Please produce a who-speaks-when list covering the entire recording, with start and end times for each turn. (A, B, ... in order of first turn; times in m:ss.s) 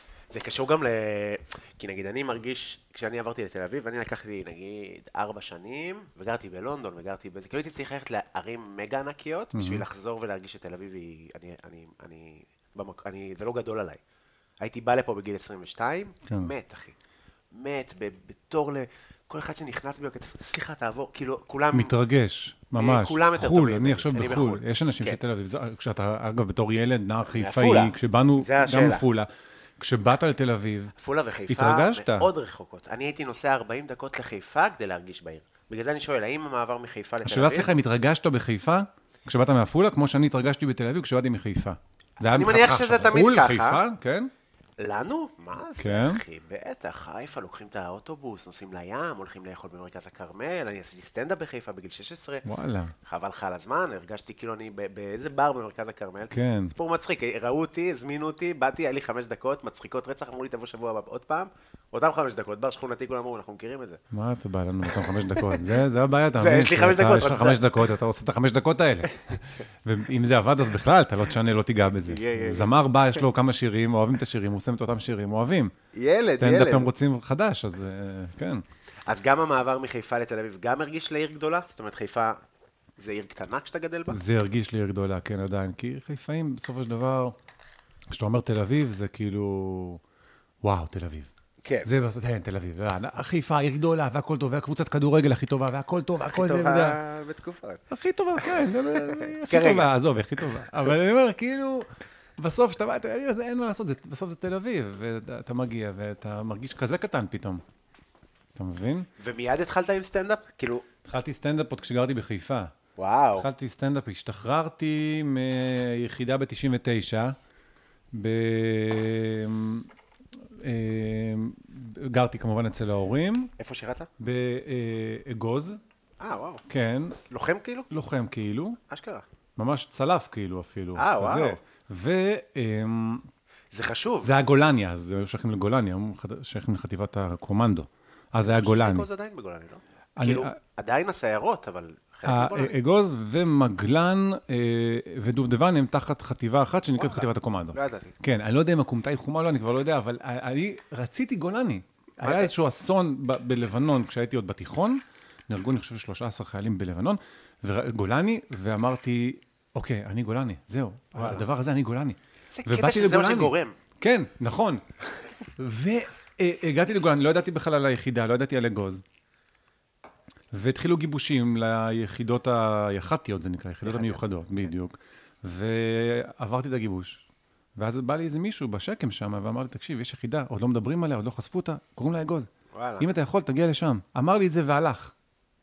0:00.3-0:14.0 A
0:09.5-0:09.8 B
0:14.6-0:17.0 A
0:17.5-0:21.9 A
0:21.7-0:30.9 B
0:22.8-0:25.2 A
0:27.2-0:29.0 A
0:31.0-0:37.7 A
0:31.5-0:32.3 B
0:37.2-0:44.3 B
0:42.2-0:43.8 A
0:44.8-0:52.5 A
0:45.8-0:46.2 B
0:52.4-0:52.9 B
0:53.0-1:04.0 A
0:56.3-0:56.7 B
1:04.1-1:15.7 B
1:05.3-1:05.6 A
1:06.4-1:07.8 A
1:12.0-1:12.7 A
1:15.9-1:16.9 A
1:16.4-1:18.6 B
1:19.1-1:22.4 A
1:23.0-1:24.2 A
1:24.1-1:27.4 B
1:28.1-1:30.0 B
1:30.6-1:31.3 B
1:31.6-1:31.9 A
1:31.8-1:37.0 B
1:36.3-1:37.8 A
1:37.9-1:47.6 B
1:38.4-1:39.9 A
1:48.6-1:49.1 B
1:49.2-1:50.8 A
1:51.0-1:52.7 B
1:53.0-1:53.5 A
1:53.3-1:57.4 B
1:58.1-1:59.9 B
2:00.6-2:03.5 B
2:03.6-2:04.1 A
2:04.2-2:05.8 B
2:06.2-2:06.6 A
2:06.7-2:07.2 B
2:07.3-2:07.9 A
2:07.9-2:08.8 B
2:08.9-2:09.2 A
2:09.6-2:13.2 B
2:10.9-2:11.6 A
2:13.7-2:14.3 A
2:14.2-2:19.1 B
2:18.4-2:22.8 A
2:20.2-2:20.6 B
2:22.2-2:44.8 B
2:27.0-2:28.2 A
2:32.2-2:32.5 A
2:41.2-2:41.4 A
2:42.5-2:43.8 A
2:45.6-2:49.0 B
2:50.5-2:57.2 B
2:53.8-2:54.2 A
2:57.8-3:05.1 B
3:02.7-3:03.1 A